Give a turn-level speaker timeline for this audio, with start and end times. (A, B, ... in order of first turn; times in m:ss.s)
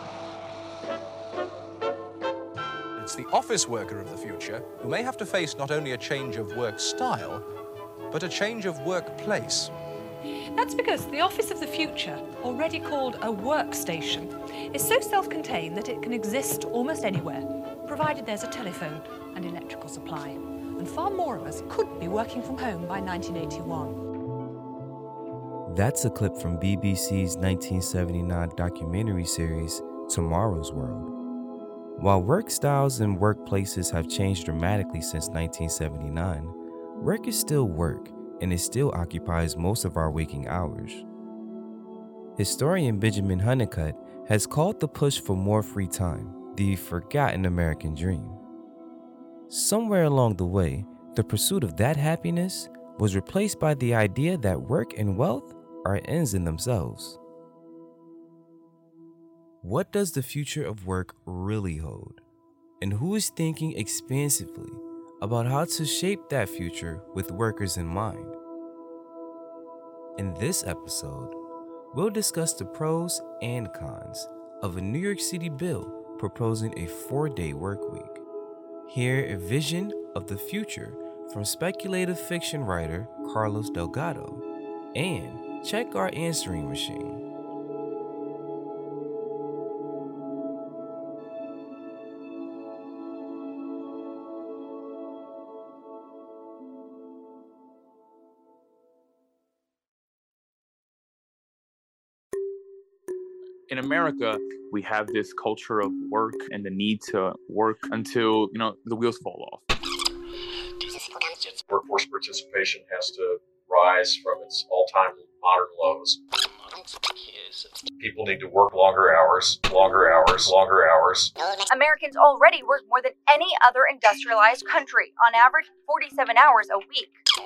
0:03.0-0:07.4 A
0:08.1-0:09.7 A
0:10.5-0:24.0 B
0:25.6-0:31.1 C
0:32.0-0:41.1 C
0:42.4-0:48.4 C
0:49.5-0:57.2 C
0:59.6-1:02.2 C
1:02.8-1:08.4 C
1:10.2-1:11.4 C
1:11.9-1:18.2 C
1:18.9-1:27.2 C
1:43.7-1:49.6 D
1:51.7-1:56.2 E
1:58.0-2:01.3 E
2:01.7-2:07.2 F